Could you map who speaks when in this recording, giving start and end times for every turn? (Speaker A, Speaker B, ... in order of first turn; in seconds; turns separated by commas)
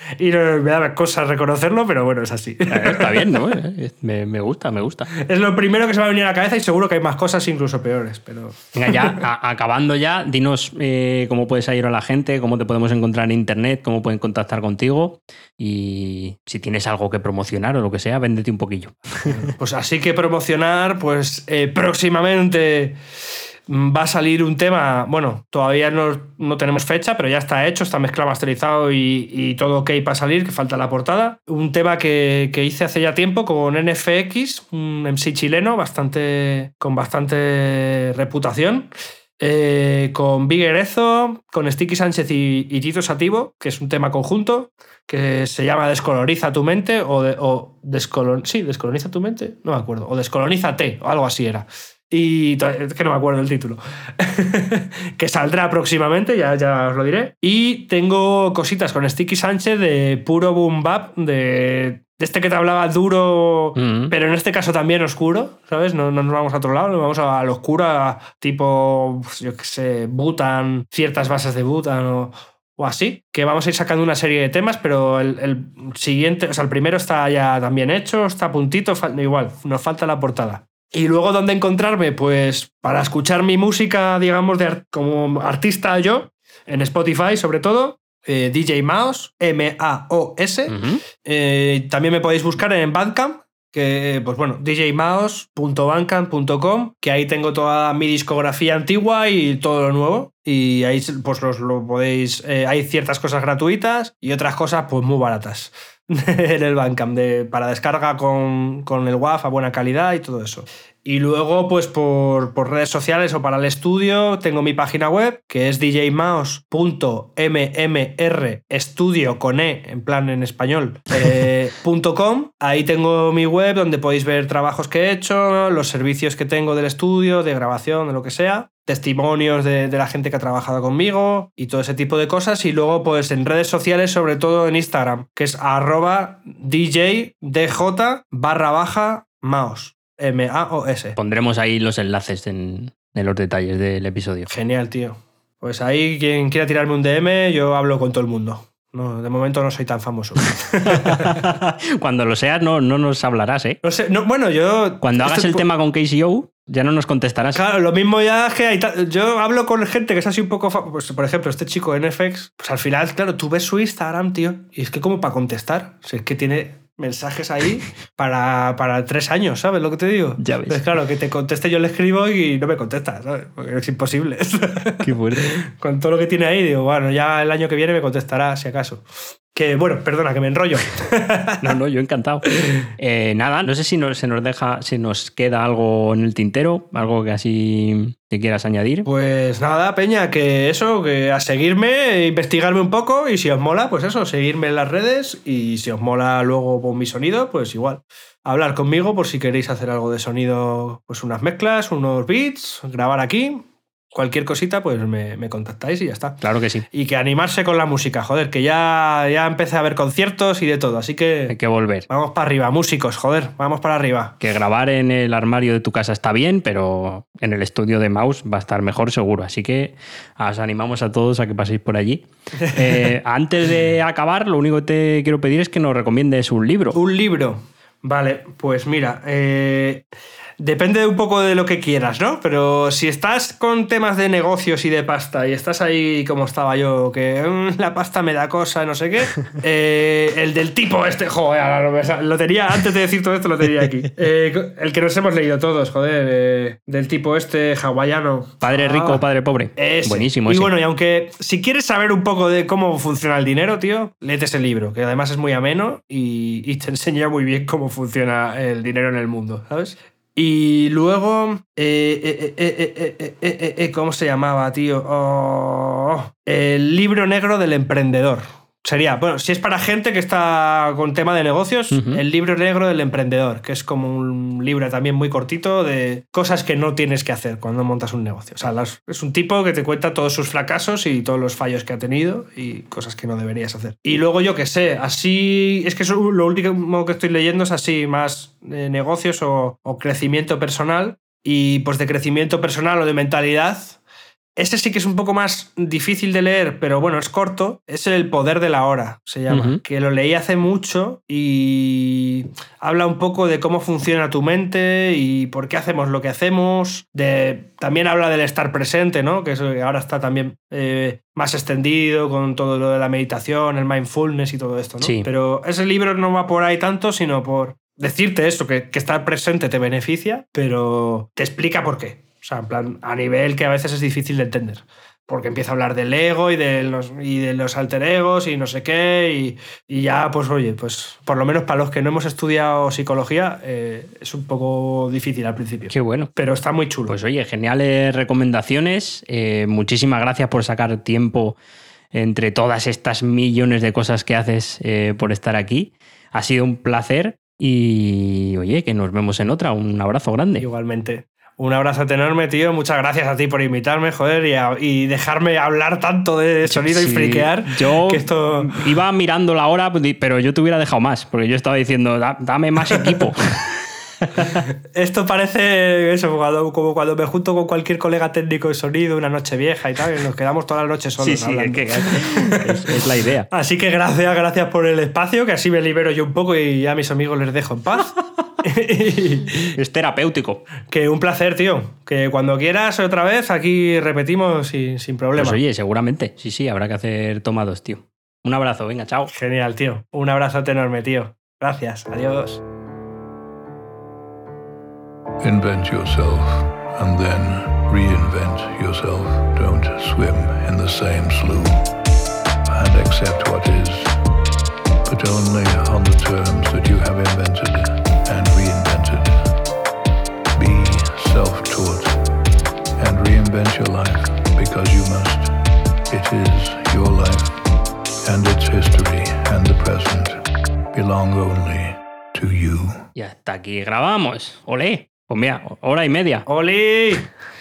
Speaker A: 0.2-3.3, Speaker B: 2.7-5.1, Speaker A: 5.1-9.2, Speaker B: 8.7-19.2, Speaker A: 19.2-23.0, Speaker A: 23.7-141.2, Speaker B: 63.8-64.1, Speaker B: 90.7-91.0, Speaker B: 141.2-144.5, Speaker A: 144.5-151.4, Speaker B: 150.9-153.8, Speaker A: 153.8-155.6, Speaker B: 155.0-157.6, Speaker A: 157.5-181.7, Speaker B: 170.4-170.8, Speaker B: 175.0-175.6, Speaker B: 181.6-189.1, Speaker A: 189.0-211.5, Speaker B: 206.4-206.8, Speaker B: 211.5-212.1, Speaker A: 212.1-214.3, Speaker B: 214.4-227.0, Speaker A: 222.6-223.0, Speaker A: 226.9-230.0, Speaker A: 230.6-249.2, Speaker B: 248.6-250.7, Speaker A: 249.8-294.0, Speaker B: 271.9-272.2, Speaker A: 294.6-337.1, Speaker B: 299.5-299.8, Speaker B: 315.0-315.3, Speaker B: 335.9-336.3, Speaker B: 337.1-341.6, Speaker B: 342.1-350.6, Speaker A: 350.6-358.8, Speaker B: 356.7-364.6, Speaker A: 364.9-373.0, Speaker B: 371.2-373.5, Speaker A: 373.5-379.8, Speaker B: 379.8-380.6, Speaker A: 380.9-385.6, Speaker B: 385.4-389.3, Speaker A: 389.3-392.6, Speaker C: 395.4-401.8, Speaker C: 402.7-404.2, Speaker C: 405.1-409.5, Speaker C: 410.5-412.2, Speaker C: 413.0-415.5, Speaker C: 416.1-417.6, Speaker C: 418.2-423.1, Speaker B: 423.1-426.4, Speaker A: 426.5-427.3